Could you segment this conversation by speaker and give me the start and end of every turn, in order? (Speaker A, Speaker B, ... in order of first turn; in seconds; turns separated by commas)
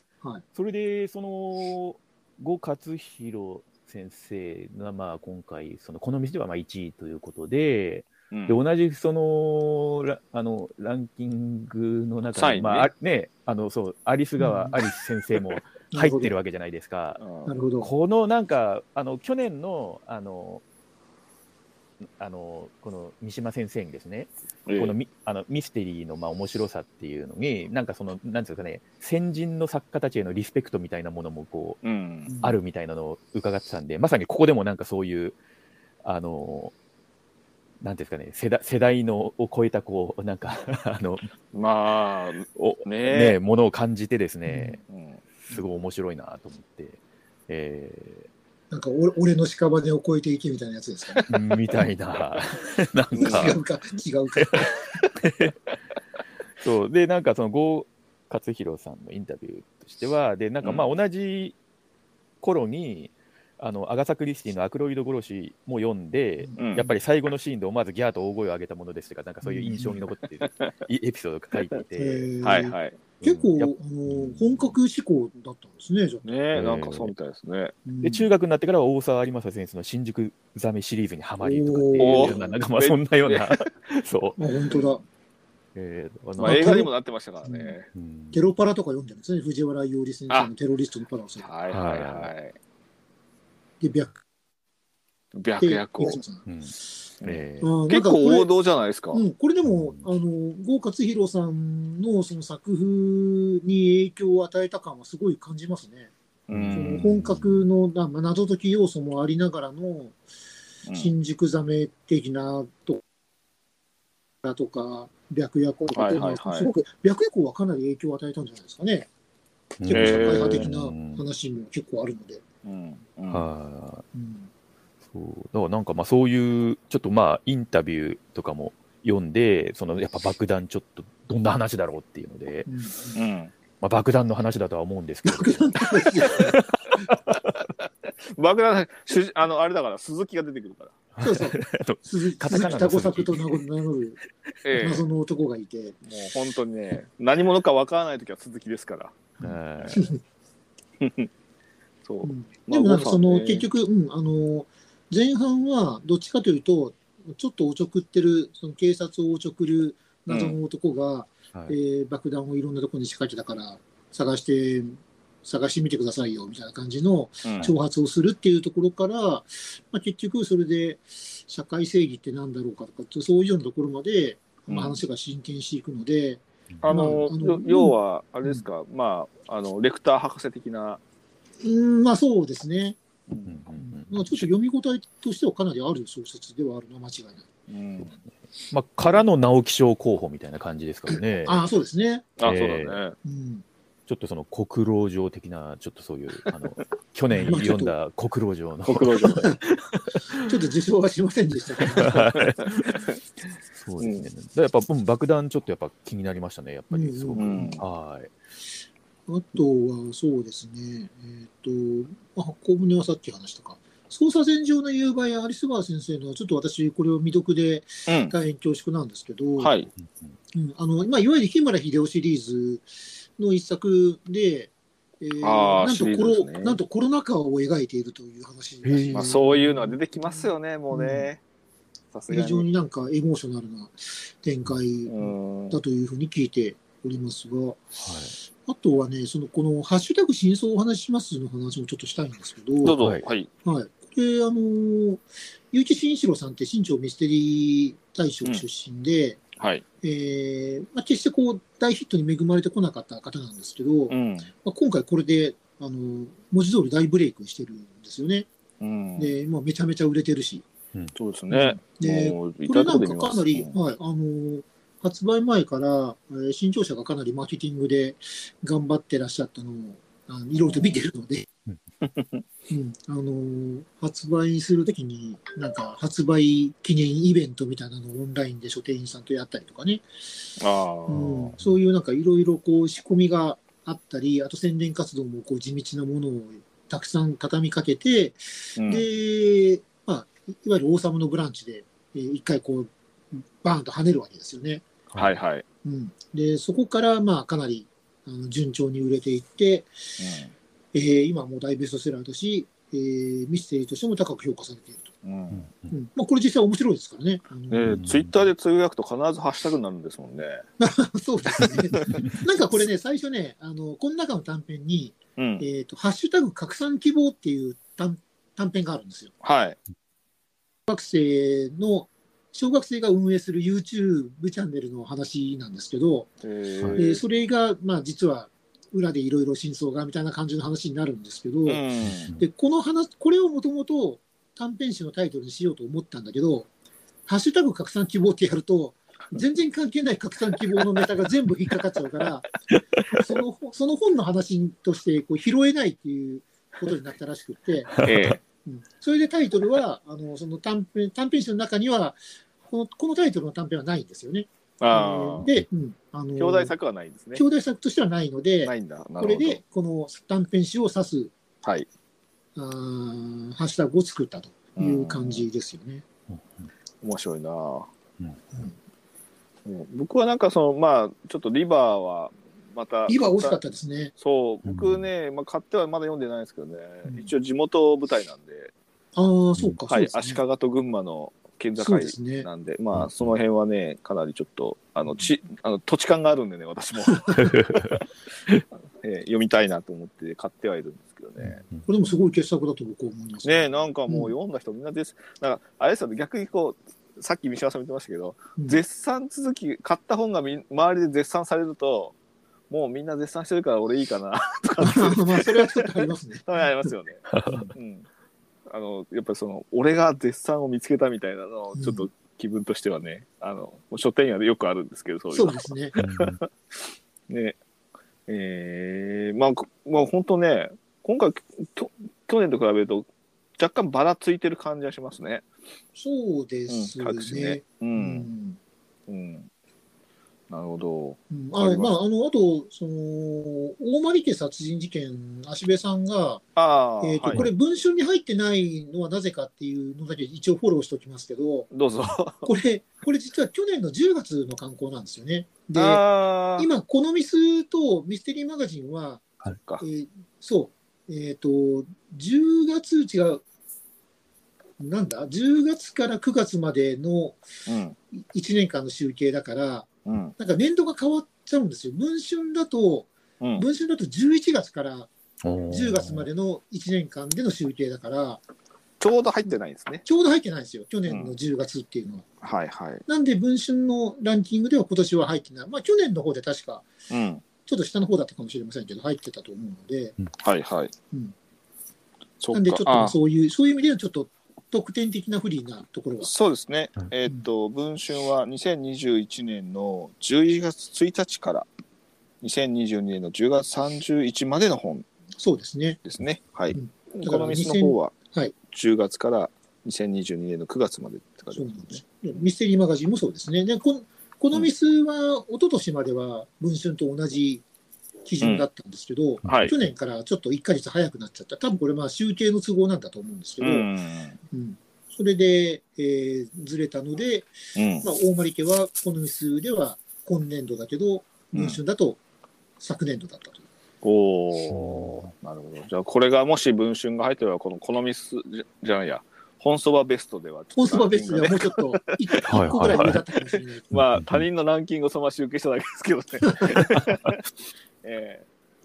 Speaker A: 0.5-17.2, Speaker B: 8.3-8.6, Speaker B: 12.3-12.9, Speaker C: 14.4-14.8, Speaker C: 15.9-16.3, Speaker B: 17.2-17.5, Speaker C: 17.4-17.9, Speaker A: 17.8-20.6, Speaker A: 22.2-31.8, Speaker B: 24.7-24.9, Speaker B: 31.8-32.3, Speaker C: 32.2-32.5, Speaker A: 32.4-35.4, Speaker A: 36.0-36.7, Speaker A: 37.8-41.3, Speaker B: 41.5-43.4, Speaker A: 42.5-44.8, Speaker C: 44.5-44.8, Speaker B: 44.9-45.2, Speaker A: 45.5-48.3, Speaker C: 48.7-51.4, Speaker A: 51.3-53.6, Speaker B: 53.1-53.5, Speaker C: 53.1-54.7, Speaker A: 54.4-55.5, Speaker A: 56.6-61.5, Speaker B: 60.6-60.9, Speaker A: 62.4-72.3, Speaker C: 66.4-66.7, Speaker B: 66.6-66.9, Speaker C: 69.4-70.0, Speaker C: 72.0-76.3, Speaker B: 72.4-73.0, Speaker A: 73.2-74.7, Speaker B: 76.2-77.8, Speaker A: 76.5-77.1, Speaker C: 77.8-78.3, Speaker A: 78.0-84.7, Speaker C: 81.4-82.5, Speaker B: 82.0-83.7, Speaker C: 84.4-85.0, Speaker A: 85.7-86.8, Speaker C: 86.4-86.9, Speaker B: 86.4-87.9, Speaker C: 87.4-87.7, Speaker A: 87.9-88.5, Speaker C: 88.3-91.5, Speaker B: 91.4-92.5, Speaker A: 91.7-92.3, Speaker C: 93.8-94.2, Speaker B: 95.3-96.2, Speaker C: 95.6-96.5, Speaker A: 96.5-97.7, Speaker B: 97.2-99.2, Speaker C: 97.6-98.5, Speaker C: 99.1-106.1, Speaker A: 99.7-100.0, Speaker B: 106.5-107.0, Speaker A: 106.5-107.6, Speaker C: 106.7-110.2, Speaker B: 110.8-111.1, Speaker C: 110.9-113.0, Speaker C: 114.4-119.1, Speaker B: 115.9-116.7, Speaker A: 119.8-121.2, Speaker C: 119.8-122.4, Speaker B: 119.9-120.7, Speaker B: 122.6-123.4, Speaker A: 123.3-124.0, Speaker C: 124.1-124.5, Speaker A: 125.1-132.7, Speaker C: 132.7-133.2, Speaker B: 133.1-133.5, Speaker A: 133.8-137.1, Speaker C: 135.2-136.6, Speaker B: 137.3-141.0, Speaker A: 141.2-143.6, Speaker C: 141.2-144.2, Speaker B: 144.6-145.1, Speaker C: 144.8-146.0, Speaker B: 146.0-149.2, Speaker C: 149.4-150.2, Speaker A: 149.4-150.0, Speaker B: 151.0-151.3, Speaker B: 152.0-153.7, Speaker C: 152.2-178.6, Speaker B: 160.3-160.6, Speaker B: 167.4-167.7, Speaker B: 174.7-175.0, Speaker B: 176.8-181.0, Speaker C: 181.6-187.5, Speaker A: 183.4-184.4, Speaker B: 187.7-188.1, Speaker A: 188.7-191.6, Speaker C: 191.1-192.3, Speaker B: 192.4-193.2, Speaker A: 192.4-193.0, Speaker C: 193.2-193.6, Speaker A: 194.1-199.6, Speaker C: 197.3-197.9, Speaker B: 198.8-199.5, Speaker C: 199.3-199.6, Speaker A: 200.1-200.4, Speaker C: 200.3-202.5, Speaker A: 201.8-203.0, Speaker B: 202.3-203.1, Speaker A: 203.8-208.3, Speaker B: 204.0-204.2, Speaker C: 206.9-207.8, Speaker B: 207.3-207.8, Speaker C: 209.3-219.7, Speaker B: 218.1-218.3, Speaker B: 219.6-219.9, Speaker C: 220.5-231.3, Speaker B: 225.4-226.8, Speaker A: 228.8-229.5, Speaker B: 229.1-231.4, Speaker B: 232.1-232.7, Speaker C: 232.3-238.0, Speaker B: 235.1-235.8, Speaker A: 238.0-238.3, Speaker C: 238.7-243.0, Speaker B: 242.8-243.5, Speaker A: 243.0-243.2, Speaker C: 243.6-249.4, Speaker B: 249.6-249.8, Speaker C: 250.0-258.5, Speaker B: 254.1-254.5, Speaker B: 258.8-259.3, Speaker C: 259.1-260.6, Speaker B: 261.1-263.7, Speaker C: 261.5-271.5, Speaker B: 270.6-271.0, Speaker B: 272.0-272.4, Speaker C: 272.7-280.0, Speaker B: 280.6-281.5, Speaker C: 281.1-294.8, Speaker B: 288.8-289.1, Speaker B: 295.1-295.6, Speaker C: 295.8-300.2, Speaker B: 300.2-300.5, Speaker C: 300.9-305.1, Speaker B: 305.2-305.7, Speaker A: 305.5-305.9, Speaker C: 305.9-308.1, Speaker B: 307.7-310.6, Speaker A: 307.9-308.3, Speaker C: 310.8-319.3, Speaker B: 311.5-312.3, Speaker B: 315.4-315.6, Speaker B: 319.4-319.8, Speaker C: 320.9-326.3, Speaker B: 326.4-327.2, Speaker C: 326.9-331.8, Speaker B: 331.6-332.3, Speaker C: 332.4-336.7, Speaker C: 337.3-342.5, Speaker C: 343.1-348.0, Speaker A: 348.0-348.2, Speaker B: 348.0-348.4, Speaker C: 348.6-356.7, Speaker B: 354.8-355.5, Speaker B: 356.4-357.4, Speaker C: 357.3-361.3, Speaker B: 358.6-359.6, Speaker B: 361.6-361.9, Speaker C: 362.6-366.0, Speaker B: 364.8-365.5, Speaker A: 366.3-366.6, Speaker B: 367.0-367.9, Speaker B: 369.6-373.6, Speaker C: 373.1-374.1, Speaker B: 374.2-378.7, Speaker A: 374.6-375.0, Speaker C: 377.1-377.3, Speaker C: 379.1-380.4, Speaker B: 379.9-387.8, Speaker C: 381.8-382.5, Speaker A: 387.4-387.8, Speaker B: 388.9-391.6, Speaker C: 391.8-394.3, Speaker B: 393.4-402.1, Speaker B: 402.7-408.1, Speaker C: 404.8-406.9, Speaker A: 407.3-407.6, Speaker C: 407.5-407.7, Speaker B: 408.7-417.6, Speaker C: 411.7-412.1, Speaker C: 415.3-415.9, Speaker A: 415.9-416.4, Speaker B: 418.3-425.4, Speaker C: 425.9-428.6, Speaker B: 426.7-428.3, Speaker B: 429.1-429.5, Speaker B: 430.5-431.9, Speaker C: 431.3-436.4, Speaker B: 436.6-437.5, Speaker C: 437.0-441.7, Speaker B: 441.7-442.5, Speaker C: 442.4-446.0, Speaker B: 445.7-446.7, Speaker C: 446.6-449.2, Speaker B: 449.5-449.8, Speaker C: 449.8-453.4, Speaker C: 454.8-457.4, Speaker B: 457.7-457.9, Speaker C: 458.1-465.1, Speaker B: 460.1-460.3, Speaker A: 465.4-466.2, Speaker C: 465.7-468.4, Speaker B: 469.0-470.0, Speaker C: 470.0-472.3, Speaker B: 471.1-471.3, Speaker B: 472.4-473.0, Speaker C: 473.1-476.9, Speaker B: 477.1-477.4, Speaker C: 477.6-480.1, Speaker B: 480.4-480.9, Speaker B: 482.4-483.1, Speaker C: 482.5-486.3, Speaker B: 486.2-491.7, Speaker B: 492.4-495.1, Speaker C: 495.4-496.0, Speaker B: 496.0-498.1, Speaker C: 496.7-498.5, Speaker B: 498.7-502.0, Speaker C: 501.5-507.6, Speaker C: 508.2-513.9, Speaker A: 509.4-509.7, Speaker B: 509.4-509.7, Speaker B: 513.6-514.4, Speaker C: 514.5-522.2, Speaker B: 517.8-518.0, Speaker B: 521.5-521.8, Speaker C: 522.8-523.6, Speaker B: 524.0-537.4, Speaker A: 524.7-525.3, Speaker C: 530.7-533.9, Speaker A: 532.5-533.2, Speaker A: 533.9-534.4, Speaker C: 536.4-537.0, Speaker B: 538.0-538.5